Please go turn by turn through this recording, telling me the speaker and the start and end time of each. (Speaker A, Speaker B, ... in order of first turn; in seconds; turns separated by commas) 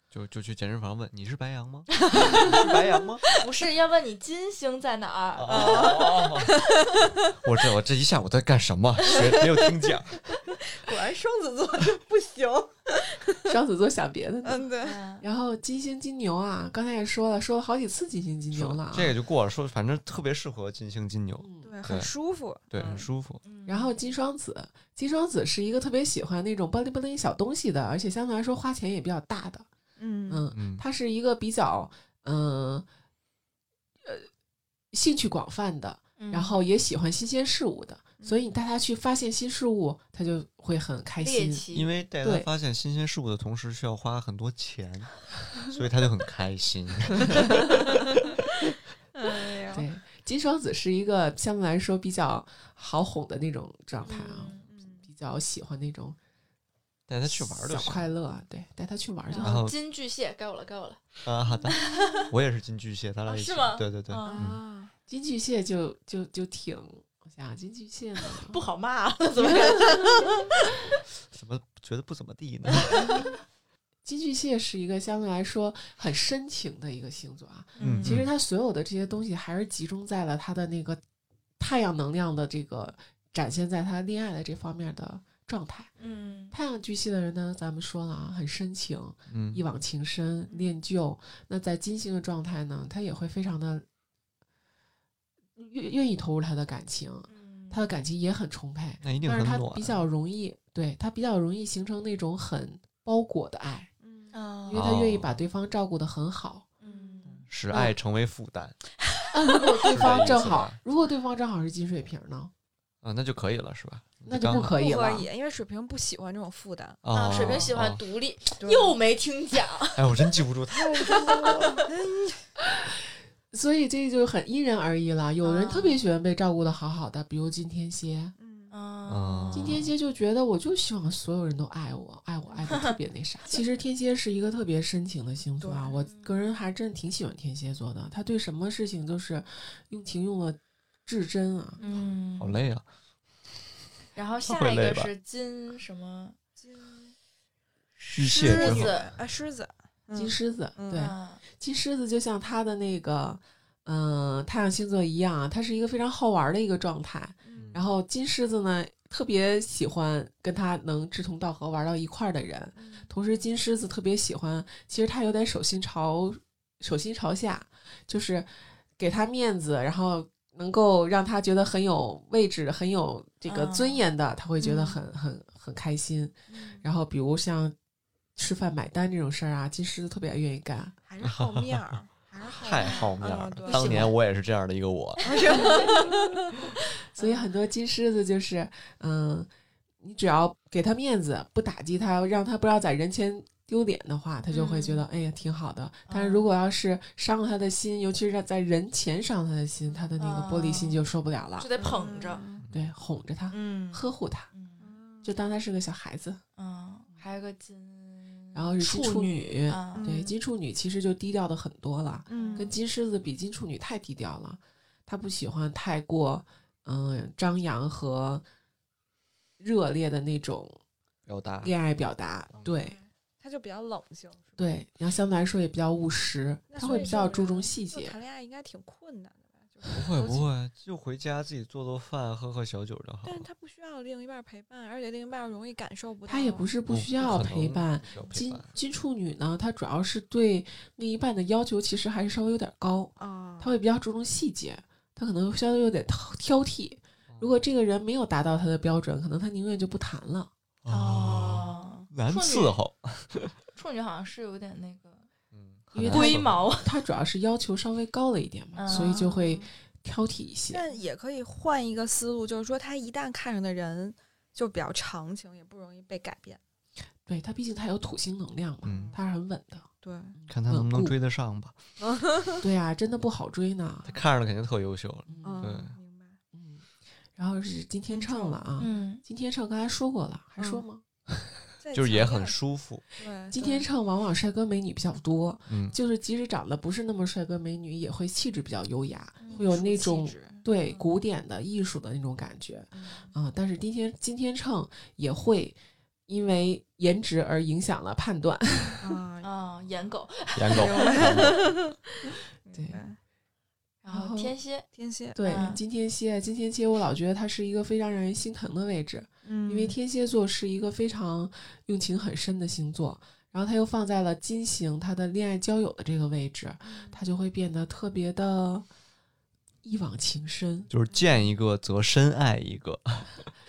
Speaker A: 0.1-3.2, Speaker B: 2.2-2.6, Speaker C: 3.4-6.1, Speaker A: 5.4-6.5, Speaker B: 5.5-6.6, Speaker A: 7.4-10.3, Speaker B: 9.0-13.5, Speaker D: 13.5-19.1, Speaker B: 14.4-15.0, Speaker C: 14.8-15.2, Speaker A: 18.5-22.1, Speaker D: 21.4-21.8, Speaker B: 21.6-23.1, Speaker A: 22.7-23.4, Speaker C: 23.4-24.1, Speaker D: 23.6-29.7, Speaker B: 30.0-30.5, Speaker D: 30.3-32.9, Speaker A: 30.5-30.8, Speaker D: 34.9-41.6, Speaker C: 36.2-36.6, Speaker B: 38.2-38.5, Speaker C: 41.2-41.9, Speaker A: 41.7-48.2, Speaker D: 42.2-42.5, Speaker B: 49.1-49.8, Speaker D: 49.7-56.2, Speaker C: 54.0-54.6, Speaker B: 54.6-55.1, Speaker A: 57.1-58.1, Speaker D: 57.2-59.6, Speaker C: 59.3-61.0, Speaker A: 59.4-59.7, Speaker A: 61.2-64.6, Speaker C: 61.7-62.2, Speaker C: 63.2-64.5, Speaker B: 64.3-64.9, Speaker D: 65.1-68.6, Speaker C: 68.5-70.4, Speaker D: 69.4-70.0, Speaker B: 69.6-70.2, Speaker A: 71.3-73.2, Speaker D: 74.0-81.0, Speaker C: 77.8-78.2, Speaker A: 77.8-78.3, Speaker D: 81.6-85.9, Speaker C: 86.0-86.5, Speaker D: 86.5-93.8, Speaker A: 89.3-89.6, Speaker D: 95.5-103.9, Speaker C: 97.3-97.9, Speaker A: 99.0-100.0, Speaker B: 104.0-104.3, Speaker C: 104.3-104.9, Speaker D: 104.7-106.7, Speaker A: 104.7-105.4, Speaker C: 106.8-107.4, Speaker B: 106.9-107.4, Speaker A: 107.4-108.8, Speaker C: 109.2-110.7, Speaker D: 109.3-112.5, Speaker A: 109.8-110.8, Speaker A: 113.0-114.9, Speaker D: 114.3-115.3, Speaker B: 114.7-117.0, Speaker A: 117.0-118.0, Speaker C: 117.1-121.8, Speaker B: 118.6-118.9, Speaker A: 119.9-121.8, Speaker B: 121.0-122.4, Speaker D: 123.5-128.3, Speaker C: 125.4-126.0, Speaker B: 128.4-128.7, Speaker C: 128.7-129.9, Speaker A: 129.1-129.9, Speaker D: 129.5-141.8, Speaker B: 135.6-136.2, Speaker C: 136.0-136.3, Speaker C: 141.8-142.6, Speaker A: 142.4-142.8, Speaker C: 144.1-146.4, Speaker A: 144.4-145.1, Speaker B: 146.6-147.1, Speaker C: 148.0-149.1, Speaker A: 148.1-149.0, Speaker B: 148.4-151.1, Speaker D: 150.1-177.7, Speaker C: 150.9-151.4, Speaker A: 157.6-157.9, Speaker B: 162.8-163.1, Speaker C: 173.5-174.0, Speaker B: 174.6-175.0, Speaker B: 176.5-176.8, Speaker D: 178.4-181.0, Speaker B: 181.1-184.1, Speaker A: 181.2-185.7, Speaker C: 182.8-184.1, Speaker B: 185.2-186.6, Speaker C: 185.3-186.1, Speaker D: 187.1-189.5, Speaker D: 190.0-201.7, Speaker C: 194.5-195.0, Speaker C: 196.1-196.5, Speaker C: 200.2-201.0, Speaker C: 201.6-202.4, Speaker B: 201.8-202.6, Speaker A: 202.6-202.9, Speaker D: 202.7-204.5, Speaker C: 203.5-204.9, Speaker B: 204.8-205.3, Speaker D: 205.2-206.4, Speaker C: 206.6-210.1, Speaker D: 208.5-218.4, Speaker B: 209.9-210.3, Speaker B: 212.3-212.7, Speaker C: 212.3-212.7, Speaker D: 219.6-220.8, Speaker A: 221.2-221.7, Speaker D: 221.6-223.0, Speaker B: 222.6-224.7, Speaker D: 224.6-228.2, Speaker B: 226.7-230.4, Speaker C: 226.8-227.4, Speaker A: 229.9-233.5, Speaker B: 233.2-236.7, Speaker D: 236.2-250.5, Speaker A: 236.9-238.7, Speaker B: 243.2-243.7, Speaker A: 247.3-247.6, Speaker A: 250.8-253.5, Speaker C: 250.9-252.8, Speaker C: 253.7-255.2, Speaker A: 255.5-256.7, Speaker D: 255.9-260.8, Speaker C: 256.0-256.9, Speaker C: 258.8-259.4, Speaker B: 258.9-259.7, Speaker B: 260.7-266.6, Speaker D: 267.2-271.1, Speaker A: 268.8-269.2, Speaker B: 268.9-269.2, Speaker B: 270.0-270.4, Speaker A: 270.5-271.8, Speaker B: 272.0-272.6, Speaker D: 272.6-274.1, Speaker A: 274.0-276.0, Speaker D: 275.3-275.8, Speaker B: 275.4-276.4, Speaker D: 276.5-281.5, Speaker B: 278.1-278.6, Speaker C: 278.8-279.2, Speaker B: 281.8-282.6, Speaker A: 281.9-283.1, Speaker B: 283.2-283.9, Speaker D: 283.5-299.0, Speaker A: 285.7-286.0, Speaker C: 289.4-289.8, Speaker B: 289.5-291.1, Speaker B: 292.9-293.3, Speaker B: 299.0-299.5, Speaker C: 299.4-301.8, Speaker A: 300.5-301.6, Speaker B: 300.7-301.7, Speaker B: 302.6-303.2, Speaker D: 302.7-303.0, Speaker C: 304.0-304.9, Speaker D: 304.1-304.6, Speaker B: 304.9-305.5, Speaker D: 305.3-318.9, Speaker C: 305.4-305.8, Speaker B: 309.4-309.9, Speaker B: 316.9-317.2, Speaker D: 319.8-320.9, Speaker A: 320.9-323.5, Speaker B: 321.1-321.5